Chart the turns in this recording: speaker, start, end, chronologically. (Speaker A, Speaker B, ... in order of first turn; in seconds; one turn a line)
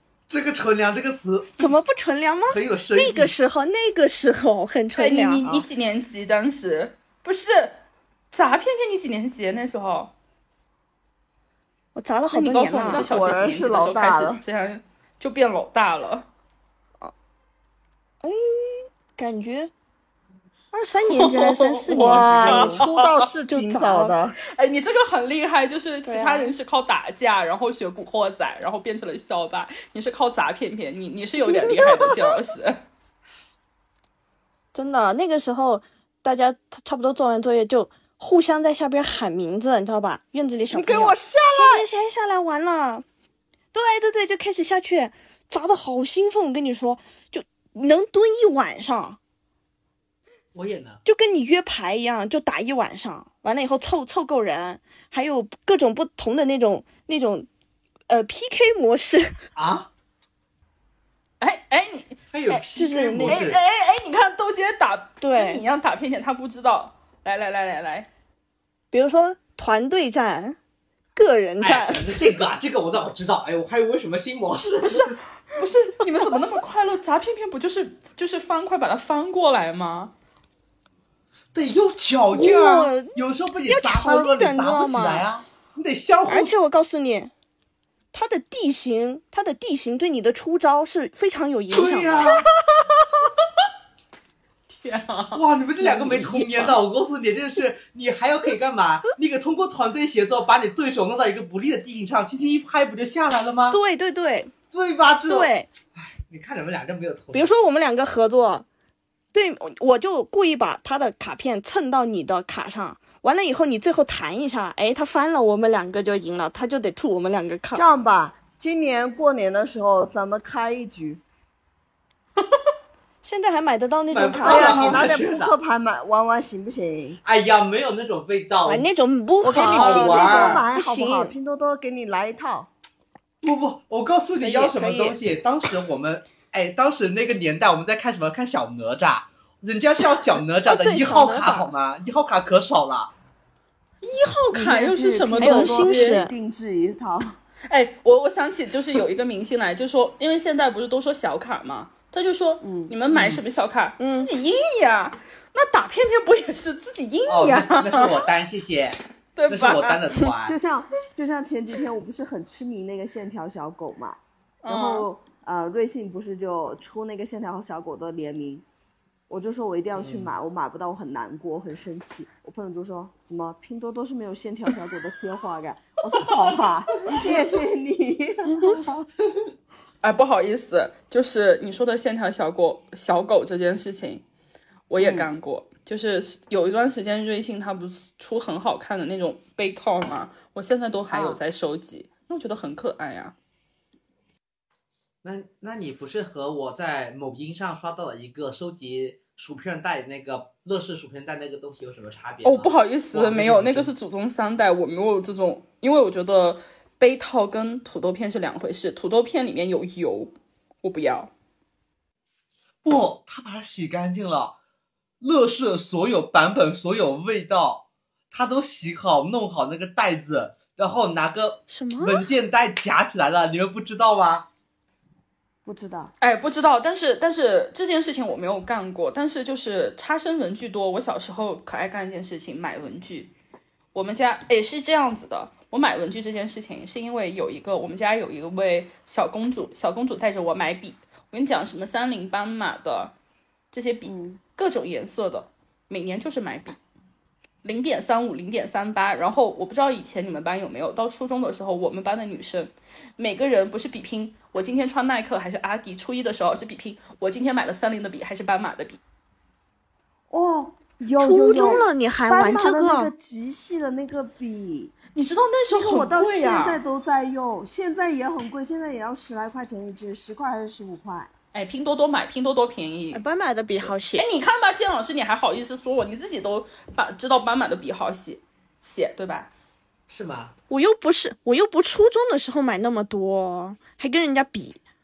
Speaker A: 0.3-1.7
Speaker B: 1.6-5.4
Speaker A: 2.5-3.3
Speaker C: 4.9-7.8
Speaker C: 8.3-10.1
Speaker B: 11.9-13.4
Speaker C: 12.3-16.3
Speaker D: 12.9-14.4
Speaker B: 18.2-19.7
Speaker B: 20.7-22.8
Speaker C: 21.0-23.3
Speaker D: 21.9-24.4
Speaker B: 23.5-24.1
Speaker C: 24.5-32.8
Speaker B: 26.1-26.5
Speaker D: 31.8-32.1
Speaker B: 34.7-43.0
Speaker D: 40.7-41.9
Speaker B: 43.7-49.2
Speaker A: 50.5-51.0
Speaker B: 51.0-57.5
Speaker B: 58.1-59.4
Speaker A: 59.5-59.9
Speaker C: 61.4-62.6
Speaker A: 62.3-63.6
Speaker B: 62.8-63.5
Speaker C: 63.2-68.1
Speaker B: 65.2-65.6
Speaker B: 68.9-70.6
Speaker B: 71.1-72.3
Speaker A: 71.6-75.2
Speaker C: 74.8-80.1
Speaker A: 81.5-86.5
Speaker B: 82.3-85.2
Speaker B: 86.3-87.3
Speaker B: 88.1-92.4
Speaker A: 91.7-92.4
Speaker C: 94.7-95.4
Speaker A: 95.3-103.8
Speaker B: 95.8-96.7
Speaker B: 103.7-104.5
Speaker A: 104.7-107.5
Speaker B: 105.3-105.7
Speaker B: 107.3-108.7
Speaker B: 109.3-117.8
Speaker D: 117.7-121.2
Speaker B: 123.2-125.1
Speaker A: 124.1-125.5
Speaker D: 124.4-127.2
Speaker A: 127.2-128.8
Speaker B: 128.7-131.3
Speaker D: 129.4-132.7
Speaker A: 129.4-130.6
Speaker A: 133.4-143.1
Speaker B: 134.4-135.2
Speaker B: 140.7-141.7
Speaker C: 144.0-146.2
Speaker D: 144.5-147.4
Speaker B: 145.4-146.3
Speaker C: 147.7-158.2
Speaker D: 152.6-152.9
Speaker A: 153.1-153.4
Speaker B: 154.0-154.3
Speaker A: 157.3-160.6
Speaker C: 159.3-160.0
Speaker D: 160.4-168.6
Speaker C: 164.6-165.1
Speaker D: 169.3-178.9
Speaker A: 169.9-170.3
Speaker C: 180.0-184.2
Speaker C: 184.9-193.3
Speaker D: 185.0-185.3
Speaker D: 191.1-191.4
Speaker A: 195.2-203.9
Speaker C: 202.4-211.3
Speaker A: 212.8-214.6
Speaker A: 215.2-224.5
Speaker B: 221.7-222.3
Speaker D: 225.6-226.1
Speaker C: 226.2-233.3
Speaker C: 233.9-243.1
Speaker C: 243.7-246.8
Speaker D: 244.1-244.4
Speaker C: 247.6-259.0
Speaker D: 260.3-264.9
Speaker B: 261.2-263.1
Speaker C: 265.1-266.8
Speaker D: 265.7-271.3
Speaker C: 271.5-273.2
Speaker B: 273.1-274.3
Speaker C: 274.1-279.5
Speaker A: 280.1-280.5
Speaker B: 280.7-284.8